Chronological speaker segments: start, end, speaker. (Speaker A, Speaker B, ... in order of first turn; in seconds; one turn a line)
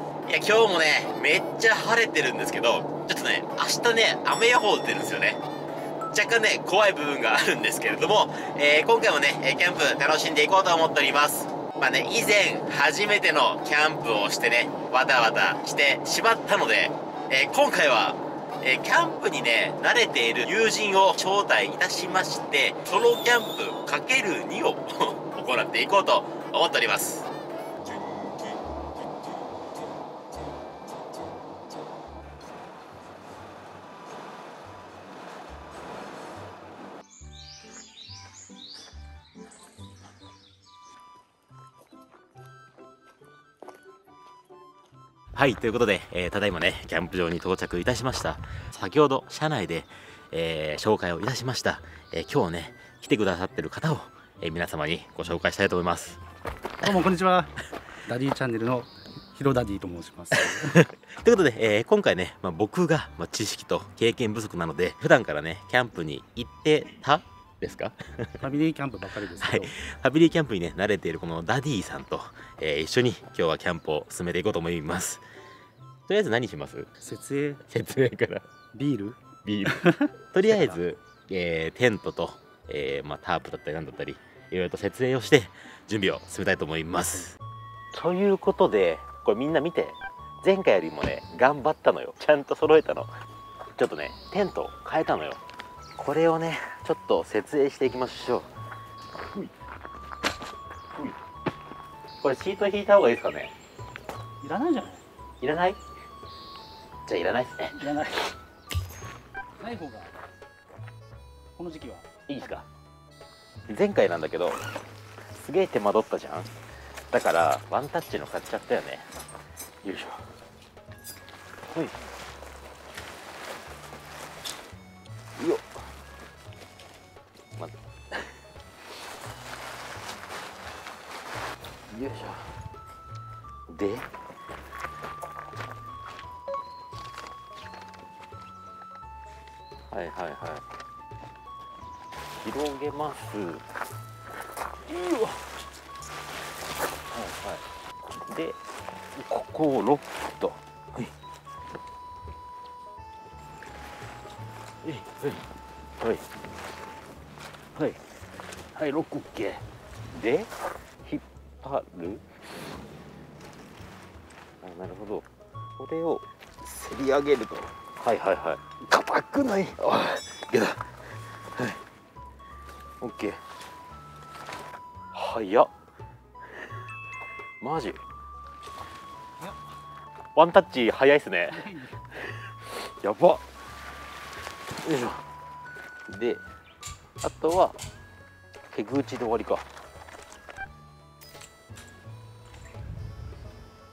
Speaker A: 0.3-5.4
Speaker A: 6.1-27.3
Speaker A: 45.4-56.2
Speaker B: 56.8-57.5
Speaker B: 58.1-60.8
Speaker A: 60.3-68.4
Speaker B: 68.4-69.8
Speaker A: 69.4-75.2
Speaker A: 76.1-76.9
Speaker B: 77.0-77.6
Speaker A: 77.7-78.5
Speaker B: 78.7-80.7
Speaker A: 79.4-79.8
Speaker A: 80.3-87.4
Speaker A: 87.9-93.1
Speaker A: 93.8-95.4
Speaker A: 96.0-98.5
Speaker A: 102.2-103.5
Speaker B: 104.4-105.0
Speaker A: 105.4-105.8
Speaker A: 107.1-107.9
Speaker B: 107.8-108.3
Speaker B: 109.6-110.2
Speaker B: 111.6-112.1
Speaker A: 112.3-112.7
Speaker A: 113.7-114.6
Speaker A: 115.3-116.5
Speaker A: 117.1-119.1
Speaker A: 119.8-120.3
Speaker A: 125.4-125.7
Speaker A: 127.6-128.4
Speaker A: 131.9-132.5
Speaker A: 133.7-134.1
Speaker A: 139.9-140.6
Speaker A: 142.4-143.7
Speaker A: 144.9-145.5
Speaker A: 147.1-148.6
Speaker A: 149.2-151.1
Speaker A: 154.8-155.5
Speaker A: 156.0-156.2
Speaker A: 158.7-160.5
Speaker A: 161.1-162.2
Speaker A: 164.6-170.8
Speaker A: 173.0-173.4
Speaker A: 175.1-175.7
Speaker A: 177.6-178.0
Speaker A: 180.4-183.4
Speaker B: 181.5-182.0
Speaker A: 184.8-185.2
Speaker A: 186.1-186.4
Speaker A: 187.2-187.8
Speaker A: 188.7-189.7